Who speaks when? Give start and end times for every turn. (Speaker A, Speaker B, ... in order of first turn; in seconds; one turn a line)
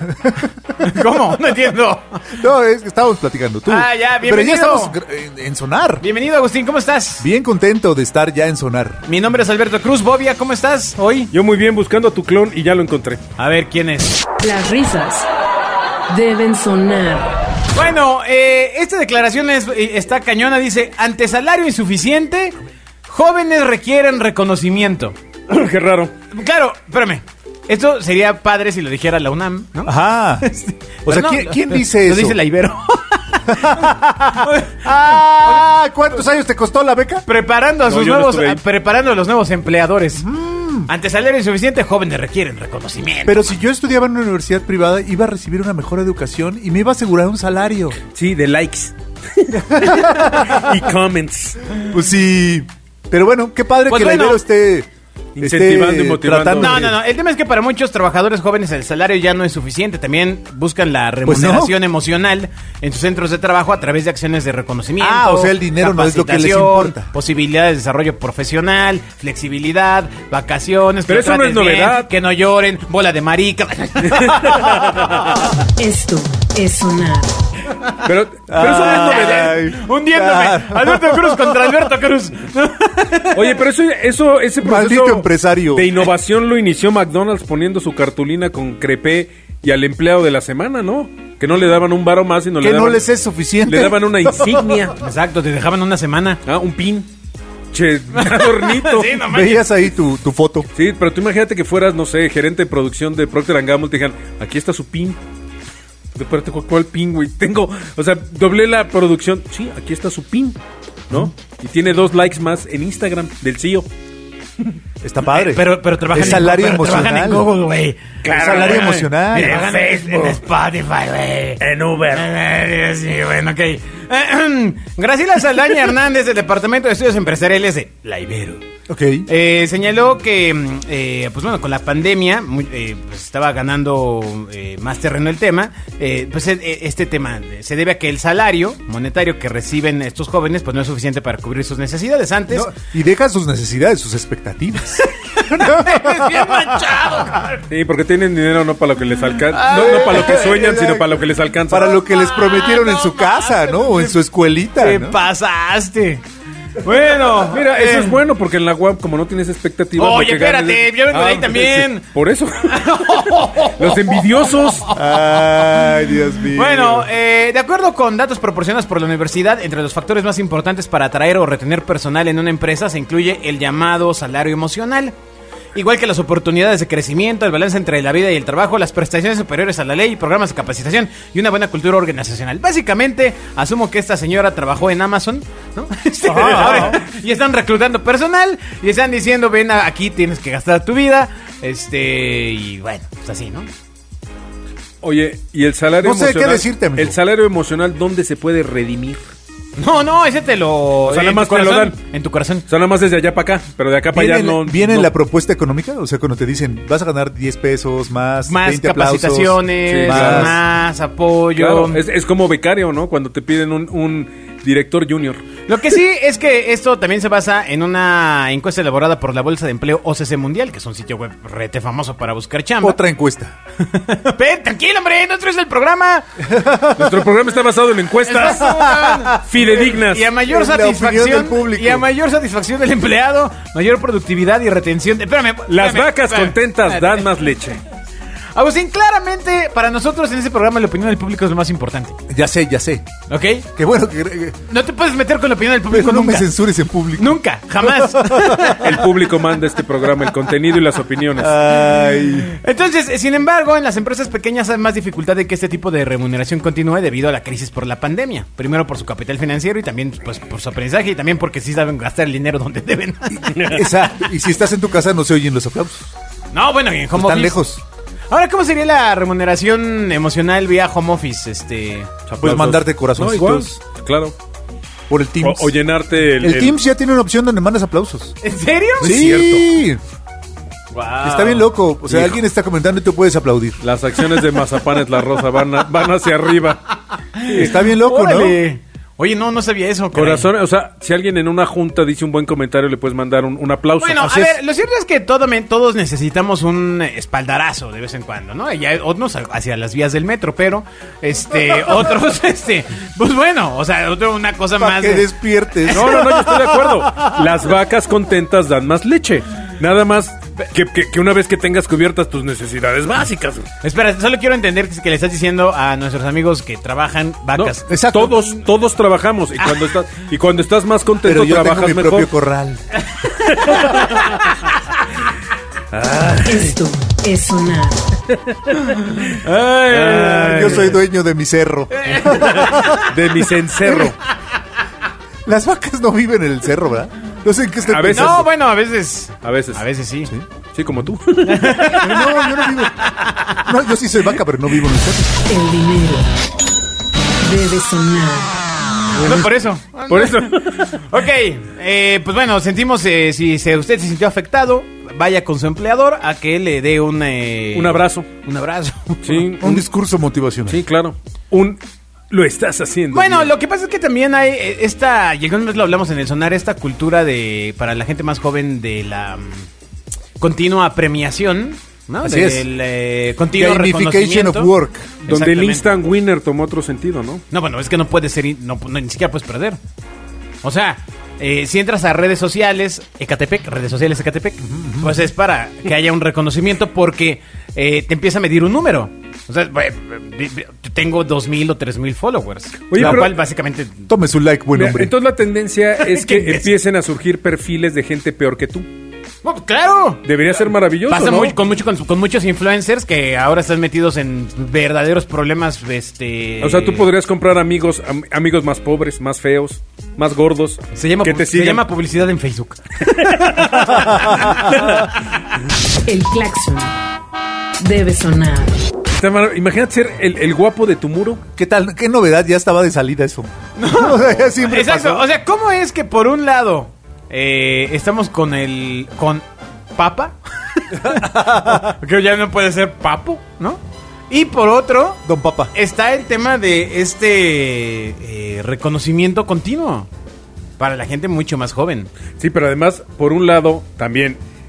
Speaker A: 0.1-1.0
Speaker B: 0.8-2.2
Speaker A: 2.3-6.0
Speaker B: 3.7-4.9
Speaker B: 6.0-7.3
Speaker A: 7.2-9.0
Speaker B: 9.1-11.3
Speaker C: 11.3-13.2
Speaker B: 13.4-14.2
Speaker D: 14.4-15.3
Speaker D: 16.1-17.3
Speaker B: 17.7-25.2
Speaker C: 25.5-26.1
Speaker B: 26.3-35.7
Speaker A: 29.9-30.5
Speaker A: 31.1-32.4
Speaker A: 33.5-37.3
Speaker B: 37.3-40.3
Speaker C: 37.9-38.6
Speaker A: 40.2-40.9
Speaker B: 40.9-43.5
Speaker A: 43.2-48.0
Speaker C: 48.1-51.6
Speaker A: 49.7-50.6
Speaker A: 51.9-57.0
Speaker B: 53.9-54.4
Speaker C: 55.4-57.0
Speaker B: 56.6-74.9
Speaker A: 61.2-61.7
Speaker A: 65.0-67.1
Speaker C: 71.1-72.1
Speaker C: 74.0-75.3
Speaker D: 75.8-77.4
Speaker C: 78.0-79.5
Speaker A: 78.5-81.8
Speaker B: 78.6-83.6
Speaker C: 83.3-93.0
Speaker A: 84.6-86.0
Speaker A: 92.6-94.7
Speaker C: 93.7-95.0
Speaker B: 95.0-96.4
Speaker C: 96.5-97.1
Speaker C: 97.7-99.2
Speaker B: 98.1-99.9
Speaker A: 99.2-100.7
Speaker C: 100.8-105.2
Speaker C: 106.2-110.6
Speaker C: 111.1-113.9
Speaker A: 115.0-117.5
Speaker B: 115.2-128.6
Speaker C: 118.2-120.4
Speaker A: 118.3-119.7
Speaker C: 121.6-122.3
Speaker A: 128.9-129.3
Speaker B: 129.3-142.7
Speaker A: 142.5-146.8
Speaker B: 145.2-147.6
Speaker C: 147.7-151.9
Speaker B: 149.5-150.7
Speaker A: 149.7-151.2
Speaker A: 151.7-155.2
Speaker B: 152.0-154.2
Speaker B: 154.8-156.2
Speaker B: 156.8-158.2
Speaker C: 157.3-164.9
Speaker B: 160.0-162.1
Speaker B: 162.7-165.9
Speaker A: 164.9-167.1
Speaker B: 166.5-175.2
Speaker B: 175.7-193.7
Speaker A: 186.2-187.0
Speaker C: 186.3-187.0
Speaker C: 195.0-199.3
Speaker A: 196.0-197.2
Speaker B: 199.8-202.7
Speaker C: 201.0-202.0
Speaker C: 202.7-205.1
Speaker A: 204.1-210.6
Speaker B: 208.5-212.0
Speaker C: 209.9-210.6
Speaker C: 211.6-215.4
Speaker B: 215.7-223.0
Speaker A: 222.8-223.6
Speaker B: 223.8-226.3
Speaker A: 226.5-227.2
Speaker C: 226.9-228.8
Speaker B: 228.3-237.3
Speaker A: 228.5-229.7
Speaker C: 229.4-230.3
Speaker A: 230.4-232.1
Speaker C: 235.7-237.8
Speaker B: 238.5-242.2
Speaker A: 242.3-243.1
Speaker B: 243.3-243.7
Speaker A: 243.8-244.6
Speaker B: 244.7-246.5
Speaker A: 245.9-249.0
Speaker B: 247.2-249.1
Speaker C: 248.8-251.6
Speaker A: 251.4-252.6
Speaker B: 252.4-263.9
Speaker C: 263.5-263.9
Speaker A: 263.6-266.1
Speaker B: 266.5-267.6
Speaker A: 267.1-267.8
Speaker B: 268.3-272.1
Speaker C: 272.3-274.3
Speaker A: 272.4-273.8
Speaker A: 275.1-275.7
Speaker C: 275.4-276.8
Speaker A: 276.4-278.4
Speaker B: 278.4-279.7
Speaker A: 279.0-280.0
Speaker B: 280.9-281.7
Speaker A: 281.2-283.8
Speaker C: 282.1-282.4
Speaker C: 283.8-287.8
Speaker B: 287.4-290.5
Speaker A: 287.5-288.6
Speaker C: 290.1-294.6
Speaker B: 294.0-307.2
Speaker A: 304.8-306.5
Speaker C: 305.9-313.7
Speaker B: 313.8-317.9
Speaker C: 317.6-322.3
Speaker A: 317.9-318.5
Speaker B: 319.6-319.9
Speaker A: 321.2-322.8
Speaker B: 323.2-324.6
Speaker C: 323.5-324.2
Speaker C: 325.9-326.8
Speaker D: 326.4-328.1
Speaker C: 328.7-329.0
Speaker B: 329.2-331.0
Speaker C: 329.9-330.9
Speaker A: 330.4-333.2
Speaker B: 331.9-333.2
Speaker C: 332.4-334.2
Speaker A: 333.9-334.1
Speaker A: 335.5-338.5
Speaker C: 337.9-338.5
Speaker B: 338.1-340.3
Speaker C: 339.4-339.8
Speaker C: 340.7-342.1
Speaker B: 341.4-343.7
Speaker A: 341.9-343.0
Speaker A: 343.6-345.3
Speaker D: 345.5-346.3
Speaker D: 347.4-348.6
Speaker C: 349.2-349.5
Speaker B: 349.2-359.8
Speaker C: 350.1-351.0
Speaker C: 357.7-358.3
Speaker C: 359.2-359.8
Speaker A: 359.6-360.8
Speaker C: 360.7-363.5
Speaker B: 363.1-369.7
Speaker B: 370.4-374.7
Speaker A: 372.2-372.7
Speaker A: 373.5-375.2
Speaker B: 375.2-375.9
Speaker C: 375.2-377.4
Speaker B: 377.5-379.8
Speaker B: 380.6-394.1
Speaker A: 384.6-385.2
Speaker C: 392.9-393.4
Speaker A: 393.0-393.3
Speaker A: 394.1-395.1
Speaker C: 394.7-398.9
Speaker B: 396.0-396.7
Speaker B: 399.4-400.2
Speaker C: 400.2-401.6
Speaker B: 401.1-407.1
Speaker C: 406.6-411.8
Speaker B: 410.9-415.1
Speaker C: 413.2-415.1
Speaker A: 413.9-414.8
Speaker D: 416.0-416.9
Speaker D: 417.8-418.8
Speaker C: 419.1-421.4
Speaker A: 421.6-425.2
Speaker B: 423.8-435.2
Speaker A: 431.0-431.9
Speaker A: 435.2-435.7
Speaker B: 435.7-440.1
Speaker B: 440.8-442.1
Speaker C: 442.4-444.4